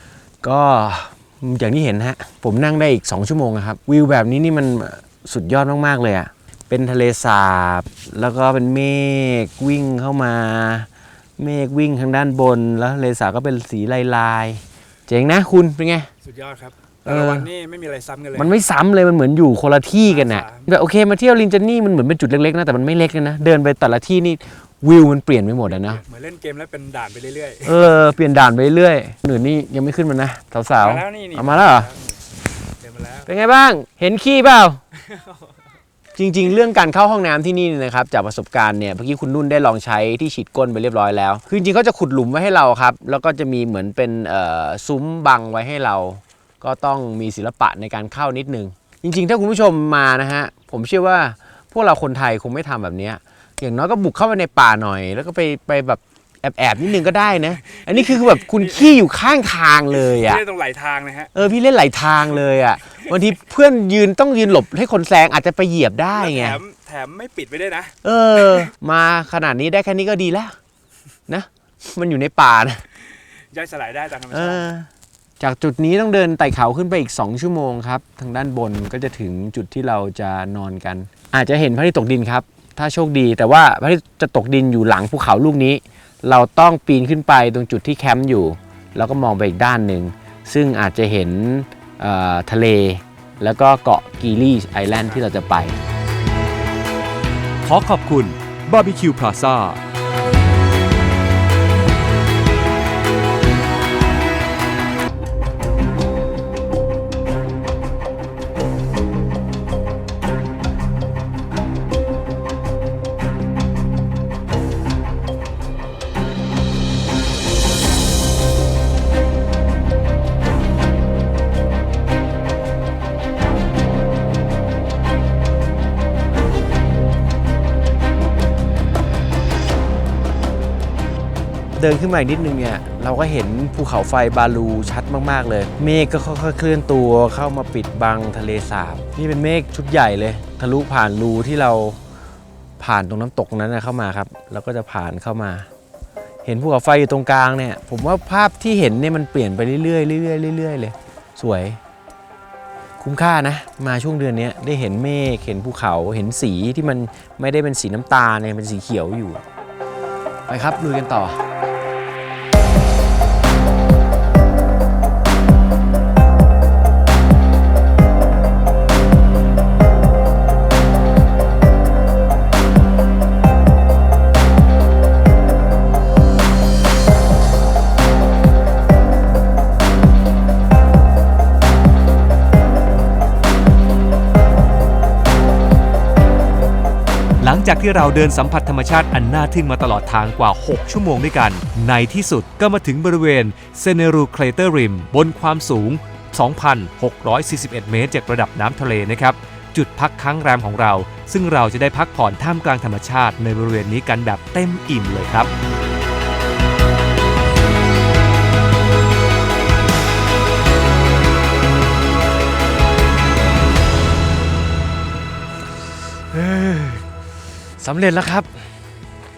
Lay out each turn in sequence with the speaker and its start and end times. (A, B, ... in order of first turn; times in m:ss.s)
0:00.4-0:16.1 A
0:16.2-0:18.6 B
0:17.1-0:17.5 A
0:18.4-0:26.0 A
0:20.0-0:20.7 B
0:25.7-0:27.8 B
0:27.6-0:31.9 A
0:30.8-0:32.2 B
0:32.8-0:33.3 B
0:33.3-0:34.8 A
0:35.0-0:35.6 B
0:36.2-1:00.4 A
0:58.0-0:59.0 B
1:00.0-1:01.3 B
1:01.3-1:06.6 A
1:06.1-1:07.9 B
1:08.0-1:10.6 A
1:11.3-1:12.8 A
1:13.5-1:14.7 B
1:14.3-1:14.9 A
1:15.4-1:35.8 A
1:37.6-1:39.8 C
2:11.8-2:22.0 A
2:22.8-2:25.7 A
2:26.4-2:31.8 A
2:33.0-2:39.4 A
2:40.5-2:41.4 A
3:07.4-3:25.5 C
3:36.3-3:37.0 A
3:37.8-3:38.7 A